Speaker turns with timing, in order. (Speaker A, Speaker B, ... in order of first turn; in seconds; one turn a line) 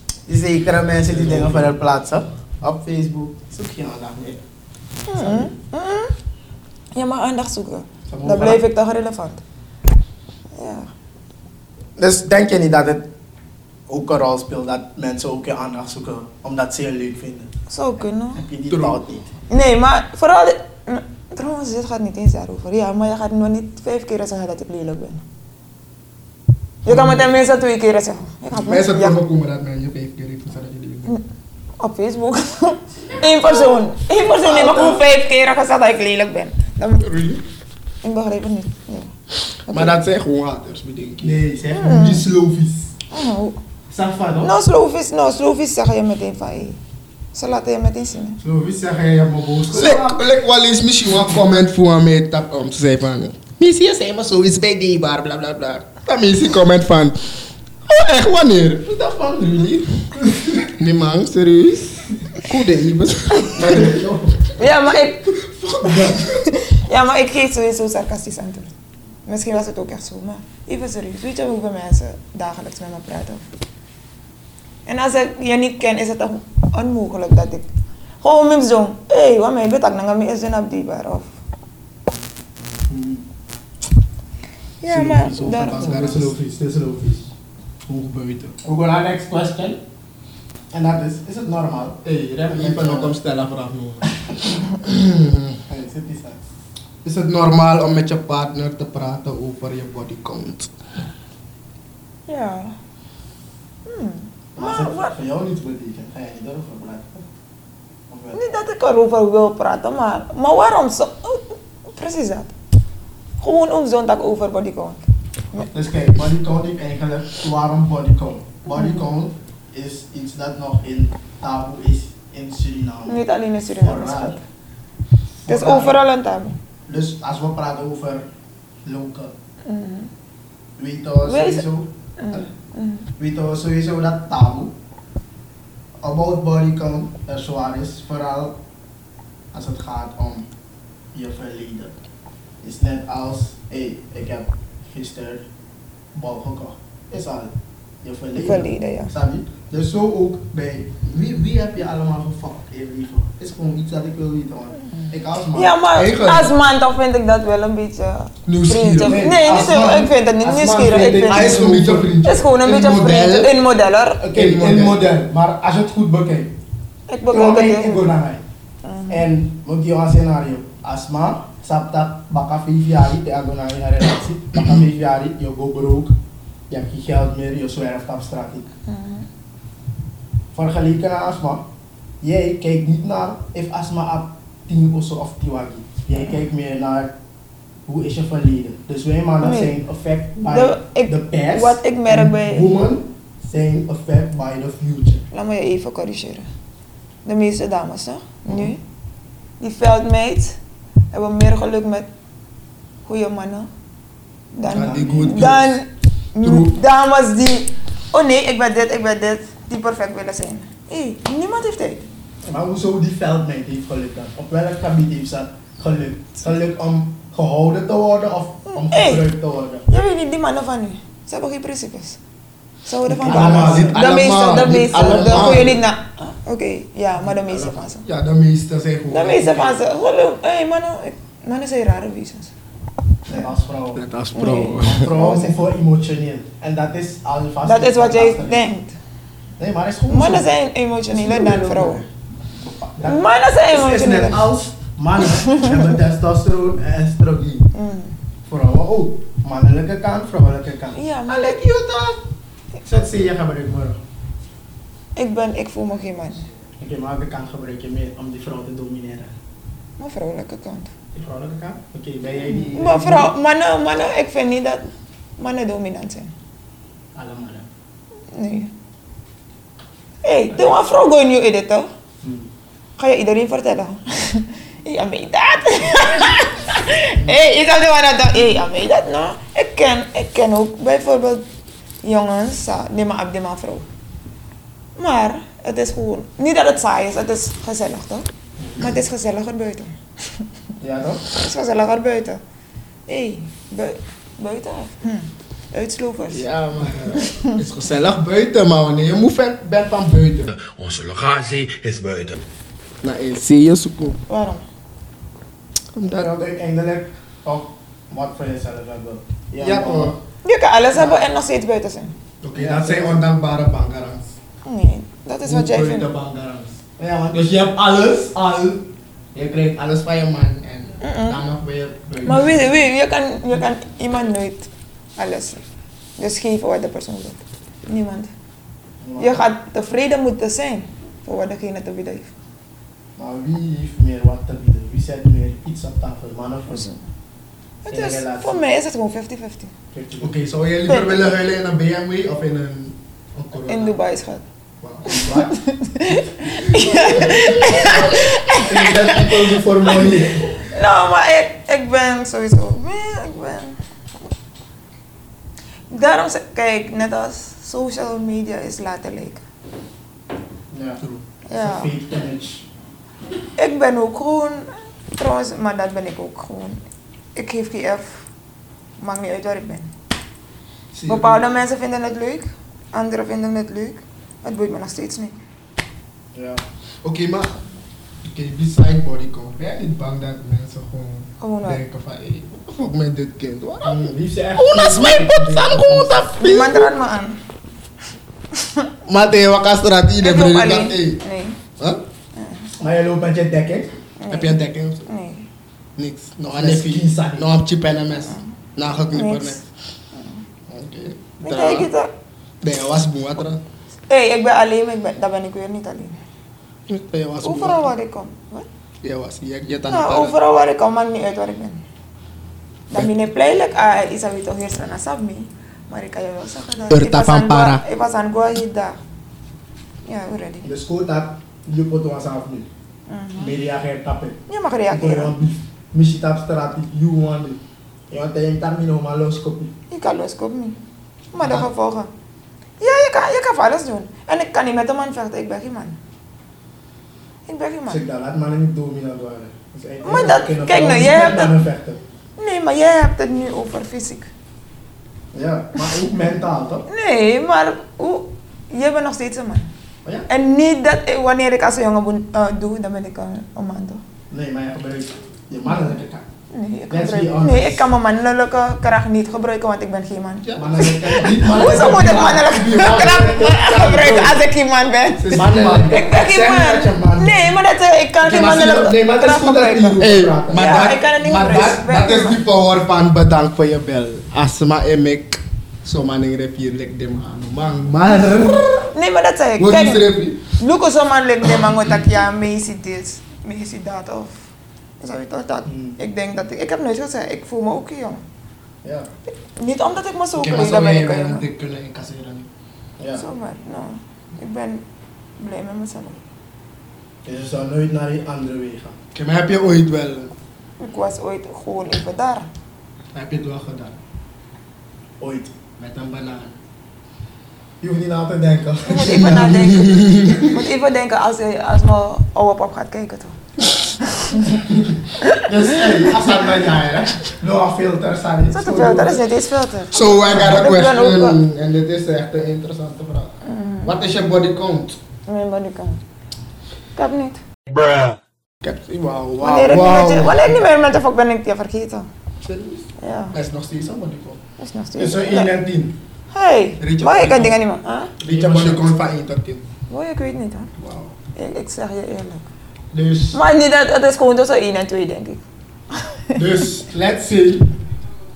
Speaker A: 0.3-4.4
Speaker B: 1.1-1.7
Speaker C: 5.1-6.1
Speaker A: 5.1-5.5
Speaker C: 6.9-9.4
Speaker A: 8.1-8.6
Speaker C: 10.5-10.9
Speaker A: 12.0-13.1
Speaker A: 13.9-17.5
Speaker C: 17.7-18.4
Speaker A: 18.3-19.3
Speaker B: 18.7-19.0
Speaker C: 19.5-25.2
Speaker B: 26.8-27.4
Speaker C: 26.8-29.2
Speaker B: 28.5-31.2
Speaker C: 31.8-37.1
Speaker A: 34.4-35.0
Speaker B: 37.0-37.4
Speaker C: 38.0-39.1
Speaker C: 39.7-40.0
Speaker B: 39.7-41.4
Speaker A: 41.2-42.9
Speaker C: 41.7-42.2
Speaker C: 43.1-43.6
Speaker A: 43.9-44.5
Speaker C: 44.4-46.8
Speaker C: 47.3-48.4
Speaker A: 48.4-50.2
Speaker B: 49.7-53.7
Speaker A: 53.6-54.8
Speaker B: 54.3-57.3
Speaker B: 57.9-58.9
Speaker A: 58.8-59.9
Speaker B: 60.2-64.0
Speaker A: 63.5-64.5
Speaker C: 64.5-68.7
Speaker B: 65.4-66.4
Speaker C: 69.2-73.4
Speaker C: 74.8-77.7
Speaker C: 78.2-81.3
Speaker A: 82.9-83.2
Speaker C: 84.8-86.1
Speaker A: 84.8-87.3
Speaker B: 85.4-86.3
Speaker B: 87.9-88.5
Speaker A: 88.6-89.8
Speaker A: 90.7-93.2
Speaker B: 92.0-94.1
Speaker B: 94.7-95.6
Speaker A: 95.7-96.4
Speaker B: 97.0-100.7
Speaker C: 102.3-102.7
Speaker C: 103.8-105.1
Speaker A: 104.5-107.2
Speaker A: 108.1-108.4
Speaker C: 108.3-112.5
Speaker C: 113.4-115.7
Speaker A: 115.7-123.2
Speaker C: 118.7-119.0
Speaker C: 123.1-124.4
Speaker A: 123.7-124.4
Speaker A: 125.4-126.0
Speaker C: 125.5-126.5
Speaker A: 126.9-128.3
Speaker A: 128.8-129.3
Speaker C: 129.6-130.1
Speaker A: 130.8-132.5
Speaker C: 131.2-131.6
Speaker C: 132.2-133.1
Speaker A: 133.2-134.7
Speaker A: 136.0-138.6
Speaker A: 139.5-140.5
Speaker A: 141.1-141.9
Speaker A: 142.6-145.4
Speaker A: 146.1-155.8
Speaker C: 148.3-149.1
Speaker C: 155.5-161.7
Speaker B: 155.9-156.5
Speaker B: 158.4-159.3
Speaker A: 159.0-162.1
Speaker B: 161.1-163.5
Speaker C: 162.2-164.2
Speaker A: 164.2-166.5
Speaker B: 164.3-165.0
Speaker C: 167.1-168.1
Speaker A: 167.3-168.4
Speaker C: 168.8-169.2
Speaker A: 169.1-176.1
Speaker A: 176.7-178.7
Speaker C: 178.9-179.3
Speaker A: 180.5-181.6
Speaker A: 182.2-187.1
Speaker A: 187.8-195.2
Speaker C: 189.4-189.7
Speaker C: 190.5-192.7
Speaker C: 195.3-196.4
Speaker C: 197.2-198.8
Speaker C: 199.6-200.6
Speaker C: 201.1-202.1
Speaker C: 203.0-203.7
Speaker C: 204.5-212.1
Speaker A: 204.6-205.6
Speaker B: 204.7-205.8
Speaker B: 206.4-206.8
Speaker A: 212.4-219.9
Speaker C: 218.7-219.3
Speaker C: 219.9-222.2
Speaker C: 222.8-228.0
Speaker A: 223.1-224.1
Speaker B: 223.2-225.8
Speaker A: 224.8-225.8
Speaker B: 227.5-229.8
Speaker C: 229.1-232.5
Speaker A: 233.3-234.0
Speaker B: 233.9-235.1
Speaker C: 234.3-235.6
Speaker A: 234.8-238.7
Speaker C: 237.6-238.9
Speaker A: 239.6-240.5
Speaker C: 240.1-242.0
Speaker A: 241.1-242.1
Speaker A: 242.6-247.7
Speaker C: 243.0-244.5
Speaker C: 245.3-245.8
Speaker C: 247.7-248.1
Speaker A: 248.5-252.2
Speaker C: 250.9-251.6
Speaker A: 252.8-254.0
Speaker C: 255.2-256.4
Speaker A: 256.8-259.3
Speaker C: 260.0-260.9
Speaker A: 261.1-263.3
Speaker C: 262.6-264.9
Speaker C: 265.4-266.3
Speaker A: 267.1-267.7
Speaker C: 268.3-268.7
Speaker C: 270.2-271.9
Speaker A: 272.2-272.5
Speaker C: 273.0-281.4
Speaker C: 282.0-283.9
Speaker C: 284.9-288.3
Speaker A: 288.6-288.9
Speaker C: 288.8-289.9
Speaker A: 290.8-291.2
Speaker C: 291.3-292.4
Speaker C: 293.1-296.4
Speaker B: 296.3-302.4
Speaker C: 297.2-297.5
Speaker B: 303.0-304.2
Speaker C: 304.3-304.6
Speaker B: 305.9-306.3
Speaker A: 306.1-310.2
Speaker B: 309.6-310.1
Speaker C: 310.4-312.1
Speaker A: 310.9-311.2
Speaker B: 312.4-314.3
Speaker A: 312.5-313.2
Speaker C: 314.6-316.1
Speaker B: 315.4-316.8
Speaker A: 317.0-317.5
Speaker B: 317.3-322.7
Speaker C: 321.0-321.4
Speaker C: 322.2-325.6
Speaker C: 326.2-328.3
Speaker A: 329.0-329.4
Speaker C: 329.2-332.3
Speaker A: 333.2-336.9
Speaker C: 336.7-337.0
Speaker C: 337.9-339.7
Speaker A: 337.9-338.6
Speaker A: 339.9-340.4
Speaker B: 340.2-344.0
Speaker C: 340.9-341.3
Speaker C: 343.6-344.4
Speaker B: 344.8-345.3
Speaker A: 345.1-345.5
Speaker C: 345.1-349.4
Speaker B: 346.5-348.3
Speaker A: 348.6-350.5
Speaker C: 350.6-353.8
Speaker C: 355.9-359.4
Speaker A: 360.7-361.0
Speaker C: 361.5-361.9
Speaker A: 361.5-362.6
Speaker C: 363.6-366.8
Speaker C: 367.3-368.2
Speaker C: 369.0-369.9
Speaker B: 370.9-371.4
Speaker C: 371.1-375.4
Speaker A: 376.3-376.6
Speaker B: 377.0-377.5
Speaker B: 378.2-386.9
Speaker C: 381.4-381.8
Speaker A: 383.8-386.3
Speaker C: 386.4-387.4
Speaker C: 388.5-388.9
Speaker B: 389.1-391.2
Speaker C: 390.2-391.6
Speaker C: 392.3-392.7
Speaker A: 392.8-393.9
Speaker C: 394.2-395.4
Speaker B: 394.3-395.1
Speaker B: 396.0-399.6
Speaker A: 396.4-397.5
Speaker C: 399.1-399.6
Speaker C: 400.1-400.4
Speaker B: 400.7-401.9
Speaker C: 401.4-402.1
Speaker B: 402.6-403.6
Speaker C: 404.1-406.1
Speaker B: 406.9-407.9
Speaker C: 407.4-408.7
Speaker B: 409.0-410.4
Speaker C: 409.9-411.8
Speaker C: 412.9-419.0
Speaker A: 416.9-417.8
Speaker C: 420.0-420.6
Speaker A: 420.6-422.7
Speaker C: 423.1-423.5
Speaker A: 423.4-429.7
Speaker C: 424.5-425.3
Speaker C: 429.9-430.8
Speaker C: 431.3-432.1
Speaker C: 432.8-436.0
Speaker C: 437.5-438.0
Speaker A: 437.9-442.0
Speaker C: 440.0-441.6
Speaker C: 442.4-444.3
Speaker A: 445.3-446.9
Speaker C: 446.9-449.7
Speaker C: 450.3-454.0
Speaker A: 454.3-456.2
Speaker C: 456.5-472.4
Speaker A: 456.9-457.9
Speaker B: 460.4-464.1
Speaker A: 460.6-464.4
Speaker B: 465.2-466.0
Speaker A: 465.3-467.5
Speaker A: 468.2-470.8
Speaker B: 470.0-478.8
Speaker C: 478.9-484.3
Speaker B: 479.6-480.5
Speaker C: 485.0-488.2
Speaker A: 485.6-486.0
Speaker A: 488.8-489.1
Speaker C: 489.3-491.4
Speaker B: 490.3-492.5
Speaker A: 493.0-493.3
Speaker C: 493.2-494.8
Speaker C: 495.4-496.2
Speaker A: 497.2-499.0
Speaker B: 499.1-500.3
Speaker C: 500.8-502.5
Speaker B: 503.1-504.0
Speaker A: 505.2-505.6
Speaker B: 505.8-506.5
Speaker A: 507.8-509.7
Speaker C: 508.9-514.5
Speaker B: 509.1-510.5
Speaker A: 515.4-519.2
Speaker C: 518.5-521.4
Speaker B: 519.9-525.0
Speaker C: 523.4-524.0
Speaker C: 525.3-526.0
Speaker C: 527.0-527.4
Speaker B: 528.6-530.6
Speaker C: 529.4-532.1
Speaker B: 532.4-534.4
Speaker C: 533.0-533.4
Speaker C: 534.6-535.5
Speaker A: 535.0-536.0
Speaker C: 536.3-538.1
Speaker B: 536.8-537.6
Speaker B: 538.2-539.6
Speaker A: 538.2-538.9
Speaker C: 539.9-540.7
Speaker B: 540.8-541.1
Speaker C: 541.3-542.5
Speaker A: 542.9-543.4
Speaker C: 543.3-545.4
Speaker A: 546.4-547.6
Speaker B: 546.5-547.0